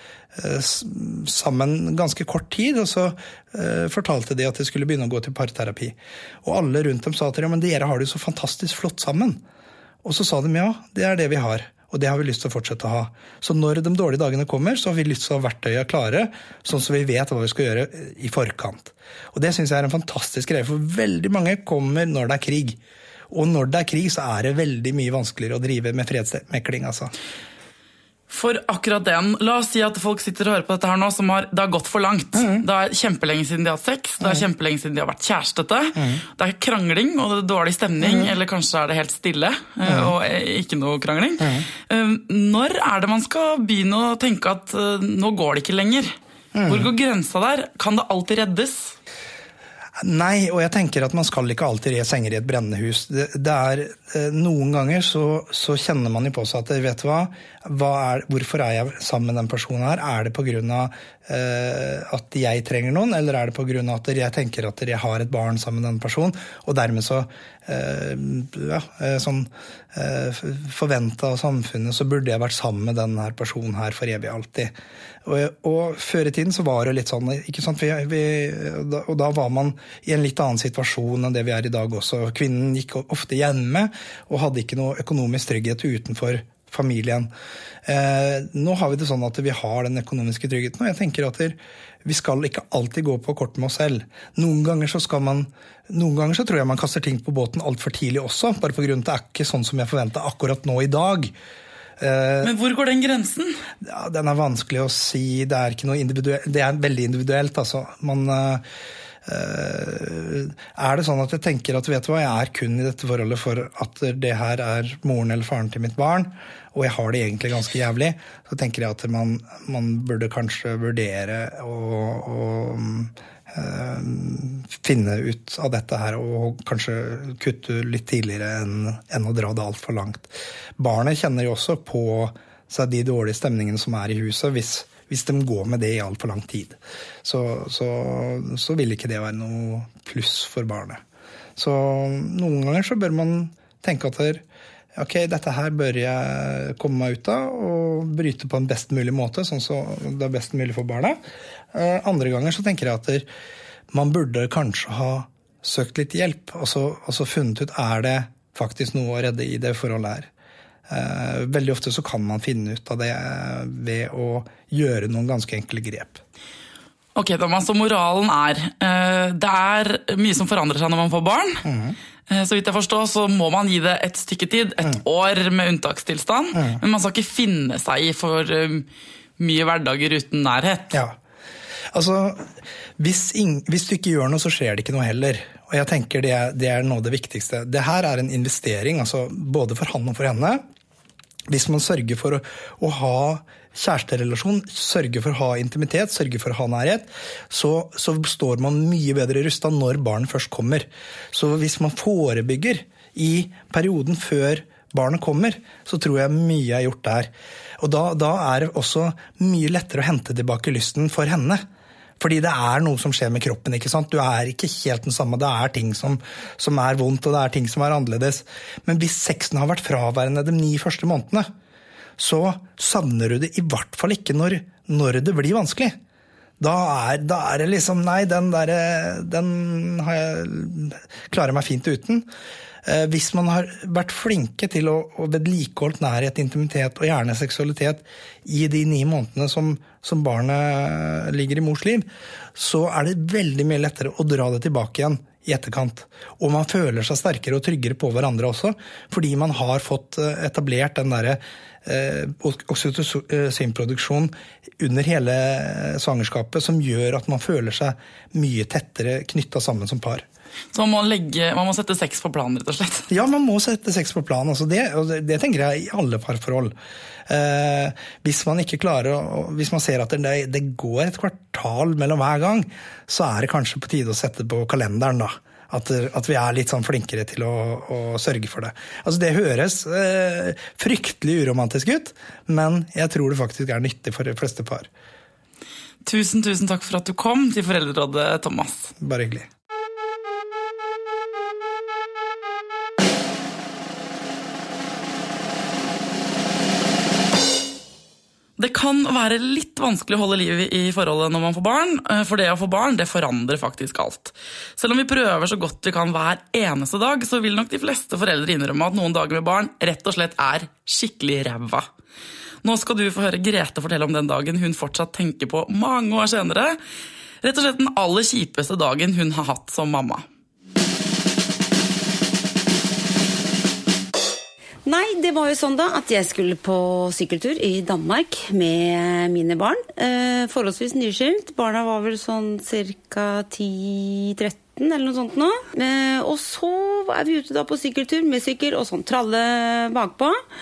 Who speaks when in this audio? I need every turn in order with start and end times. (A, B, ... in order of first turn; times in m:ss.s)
0:00.3-0:09.4 A
0:10.0-0:22.8 A
0:23.3-0:27.1 A
0:28.3-0:46.2 B
0:32.4-0:32.6 A
0:36.0-0:36.2 A
0:38.0-0:38.3 A
0:39.8-0:40.1 A
0:41.4-0:41.6 A
0:46.5-0:46.9 A
0:46.7-0:49.0 B
0:50.0-1:14.7 A
1:15.2-1:27.3 A
1:27.9-1:41.3 A
1:42.0-1:42.5 A
1:42.4-1:43.6 B
1:43.8-1:48.6 A
1:49.2-2:21.0 A
2:21.6-2:24.4 A
2:25.0-2:31.2 A
2:31.7-2:33.3 A
2:33.9-2:40.3 A
2:40.9-2:46.2 A
2:47.2-2:51.6 B
2:51.6-2:52.0 A
2:52.3-2:58.9 B
2:56.6-2:56.8 A
2:59.4-3:00.9 B
3:00.9-3:01.2 A
3:01.9-3:10.6 A
3:11.5-3:31.6 A
3:32.2-3:41.5 A
3:42.2-3:46.0 A
3:46.6-3:52.3 A
3:52.8-4:20.2 A
4:20.7-4:23.1 B
4:23.1-4:26.7 A
4:27.3-4:44.9 A
4:46.0-4:48.9 B
4:49.0-4:49.5 A
4:58.6-5:11.9 B
5:12.6-5:16.8 B
5:17.4-5:20.2 B
5:24.8-5:40.4 C